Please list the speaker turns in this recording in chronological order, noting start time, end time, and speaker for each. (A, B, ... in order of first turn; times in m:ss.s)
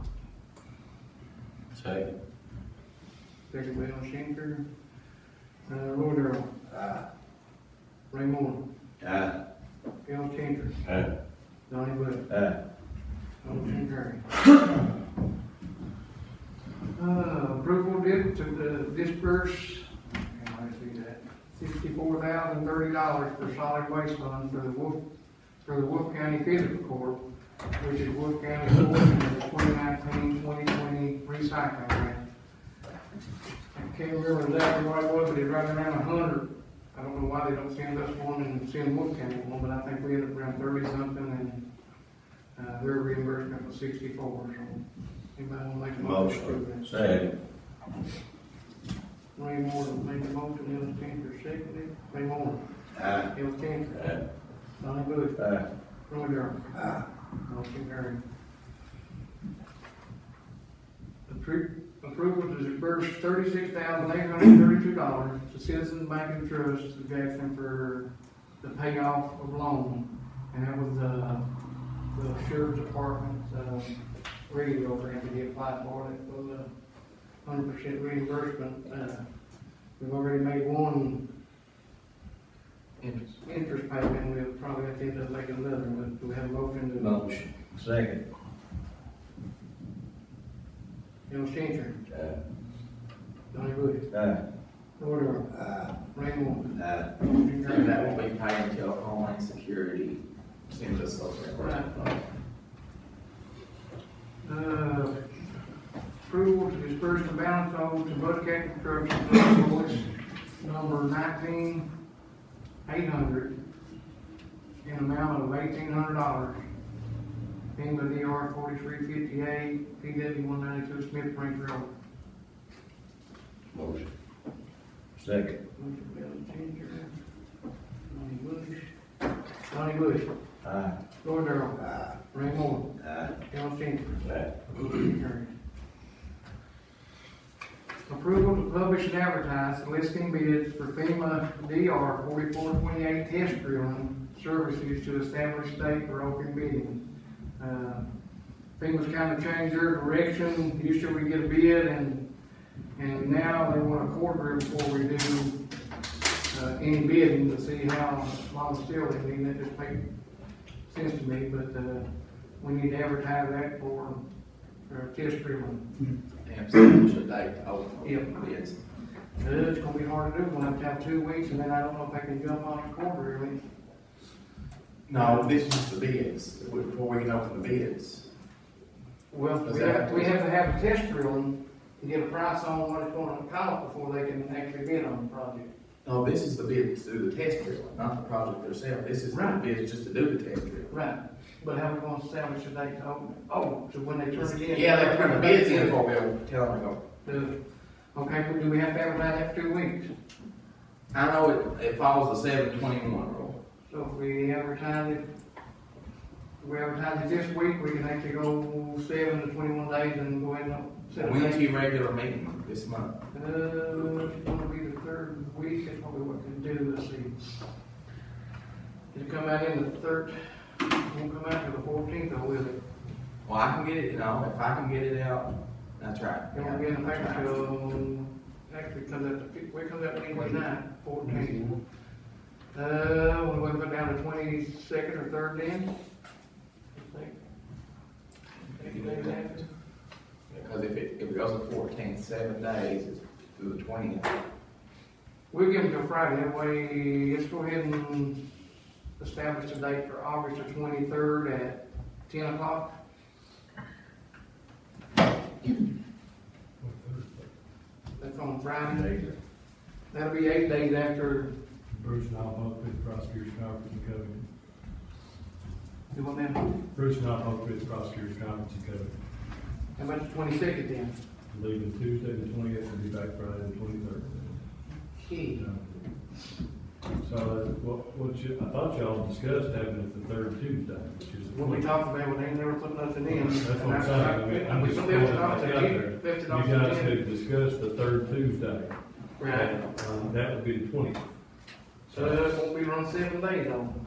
0:01.7-0:02.1 A
0:03.5-0:04.6 B
0:05.7-0:06.5 B
0:08.1-0:08.6 B
0:09.0-0:09.3 A
0:10.0-0:10.8 B
0:11.7-0:12.3 B
0:12.3-0:12.6 A
0:13.4-0:14.2 B
0:17.0-0:25.0 B
0:25.6-0:27.2 B
0:27.8-0:32.2 B
0:33.7-0:41.6 B
0:42.6-0:44.8 B
0:45.4-0:46.9 B
0:46.0-0:47.3 A
0:49.4-0:52.6 B
0:53.0-0:53.3 A
0:53.3-0:54.1 B
0:53.9-0:54.2 A
0:54.7-0:55.4 B
0:55.4-0:55.6 A
0:56.1-0:56.9 B
0:57.5-0:58.2 B
1:01.3-1:11.4 B
1:12.1-1:16.7 B
1:17.4-1:19.3 B
1:20.0-1:21.2 B
1:23.0-1:23.4 C
1:23.4-1:27.2 B
1:26.9-1:28.2 A
1:31.3-1:32.0 B
1:32.1-1:32.4 A
1:33.5-1:34.0 B
1:34.1-1:34.4 A
1:35.0-1:35.5 B
1:35.6-1:35.9 A
1:36.1-1:38.2 B
1:36.8-1:37.1 A
1:37.6-1:42.2 C
1:41.6-1:42.1 B
1:44.4-1:45.4 B
1:46.2-1:51.9 B
1:52.9-1:53.5 B
1:54.8-1:56.6 B
1:57.8-2:01.9 B
2:03.7-2:04.1 A
2:05.2-2:05.6 A
2:05.8-2:07.1 B
2:08.1-2:08.9 B
2:09.7-2:10.3 B
2:10.6-2:11.0 A
2:11.2-2:15.5 B
2:13.0-2:13.3 A
2:18.1-2:27.0 B
2:27.6-2:28.1 B
2:28.8-2:32.2 B
2:33.0-2:35.5 B
2:36.5-2:40.0 B
2:40.9-2:42.1 B
2:42.6-2:44.2 B
2:44.9-2:45.9 B
2:46.4-2:48.8 C
2:48.0-2:48.4 B
2:49.4-2:53.6 B
2:55.1-2:58.2 C
2:55.1-2:55.5 B
2:59.3-3:05.7 B
2:59.6-3:00.3 C
3:06.0-3:10.9 C
3:09.3-3:09.6 B
3:10.9-3:16.0 B
3:14.3-3:17.0 C
3:17.2-3:17.6 B
3:18.1-3:20.1 B
3:21.1-3:23.6 C
3:23.9-3:25.2 B
3:26.6-3:31.7 B
3:31.1-3:33.1 C
3:33.3-3:37.6 B
3:39.1-3:42.8 B
3:43.4-3:47.6 C
3:46.5-3:51.7 B
3:52.7-3:55.9 B
3:56.9-3:57.4 B
3:58.7-3:59.6 C
3:58.8-3:59.7 B
4:00.5-4:04.4 C
4:05.5-4:08.4 B
4:09.2-4:12.9 B
4:16.8-4:17.5 D
4:18.2-4:19.3 B
4:20.1-4:21.5 B
4:21.9-4:24.5 D
4:26.1-4:26.7 B
4:26.9-4:29.1 D
4:30.0-4:31.2 B
4:31.5-4:34.7 D
4:35.1-4:35.6 B
4:35.5-4:36.1 D
4:37.2-4:41.9 D
4:41.5-4:47.2 B
4:43.3-4:51.3 D
4:49.4-4:49.8 B
4:52.1-4:52.4 D
4:52.1-4:54.0 B